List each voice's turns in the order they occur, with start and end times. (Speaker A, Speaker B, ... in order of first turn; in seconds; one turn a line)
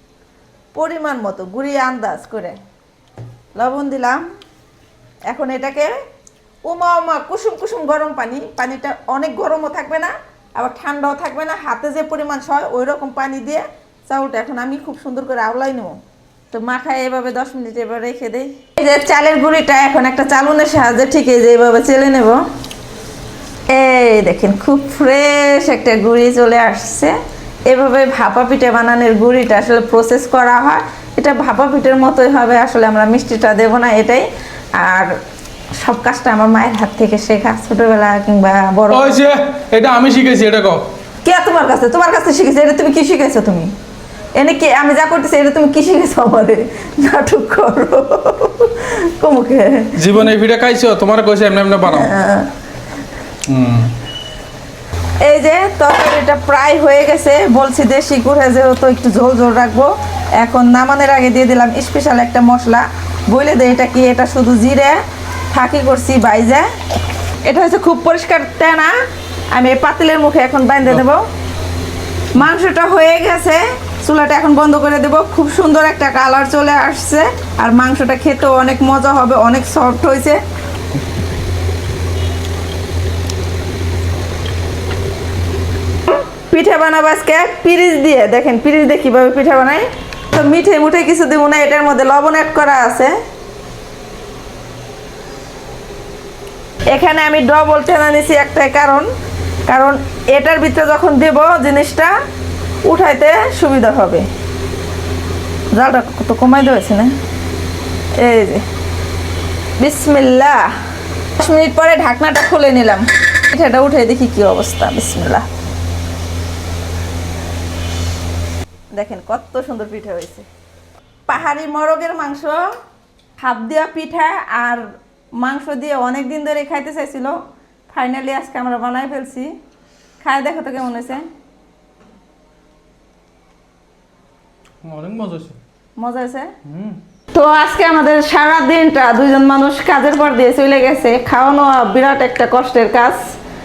Speaker A: 0.8-2.6
Speaker A: 3.6-4.2
Speaker A: 5.3-6.0
Speaker A: 6.6-16.0
Speaker A: 16.5-22.4
Speaker A: 23.7-35.1
Speaker A: 35.8-39.1
Speaker B: 38.9-40.9
Speaker A: 41.2-43.7
Speaker A: 44.4-50.1
Speaker B: 49.9-52.1
Speaker A: 51.9-52.5
Speaker B: 53.5-53.9
Speaker A: 55.2-65.0
Speaker A: 65.5-66.7
Speaker A: 67.4-68.9
Speaker A: 69.5-71.2
Speaker A: 72.3-80.4
Speaker A: 86.1-93.2
Speaker A: 96.9-99.1
Speaker A: 99.7-102.1
Speaker A: 102.8-104.3
Speaker A: 105.8-107.1
Speaker A: 108.2-108.6
Speaker A: 109.8-110.7
Speaker A: 111.4-115.5
Speaker A: 118.9-120.5
Speaker A: 121.3-122.7
Speaker A: 123.4-124.8
Speaker A: 125.4-127.4
Speaker A: 127.9-129.5
Speaker A: 130.2-131.2
Speaker B: 134.8-135.6
Speaker A: 136.0-136.5
Speaker B: 136.6-137.0
Speaker A: 137.3-143.2